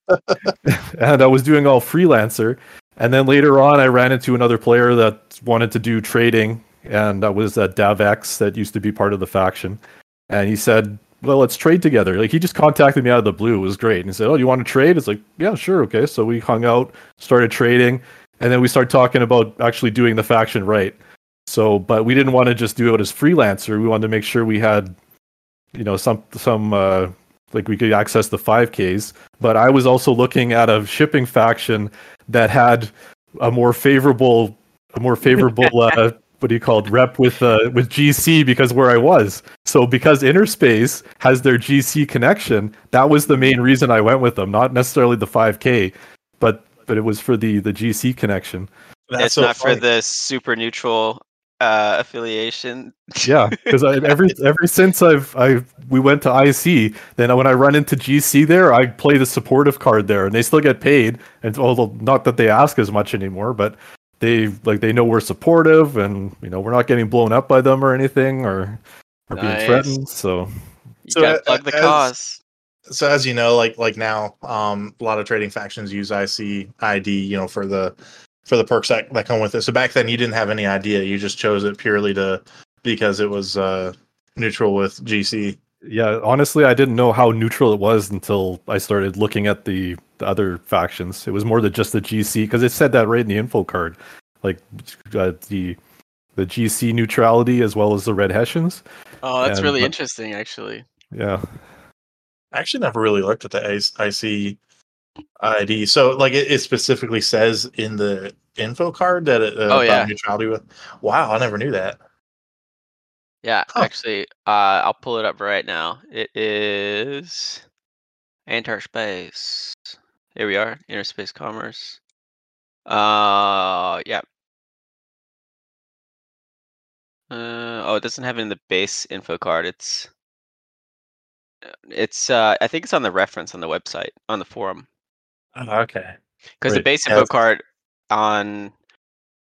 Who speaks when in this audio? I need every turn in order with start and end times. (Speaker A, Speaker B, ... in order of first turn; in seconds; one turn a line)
Speaker A: 0.6-24.9
Speaker A: 25.7-48.7
Speaker B: 49.1-49.8
Speaker C: 49.2-54.1
Speaker A: 53.2-70.5
Speaker C: 69.4-70.0
Speaker C: 71.1-72.4
Speaker B: 71.1-72.1
Speaker B: 72.9-78.0
Speaker B: 78.5-85.6
Speaker A: 85.8-95.8
Speaker A: 96.4-98.8
Speaker C: 99.2-100.8
Speaker A: 99.4-99.9
Speaker A: 101.1-101.6
Speaker B: 102.5-104.6
Speaker B: 105.4-112.0
Speaker C: 109.7-110.1
Speaker C: 113.4-117.6
Speaker C: 118.5-122.0
Speaker C: 122.9-124.2
Speaker C: 127.3-130.1
Speaker C: 131.9-134.9
Speaker B: 135.6-136.2
Speaker C: 136.6-138.7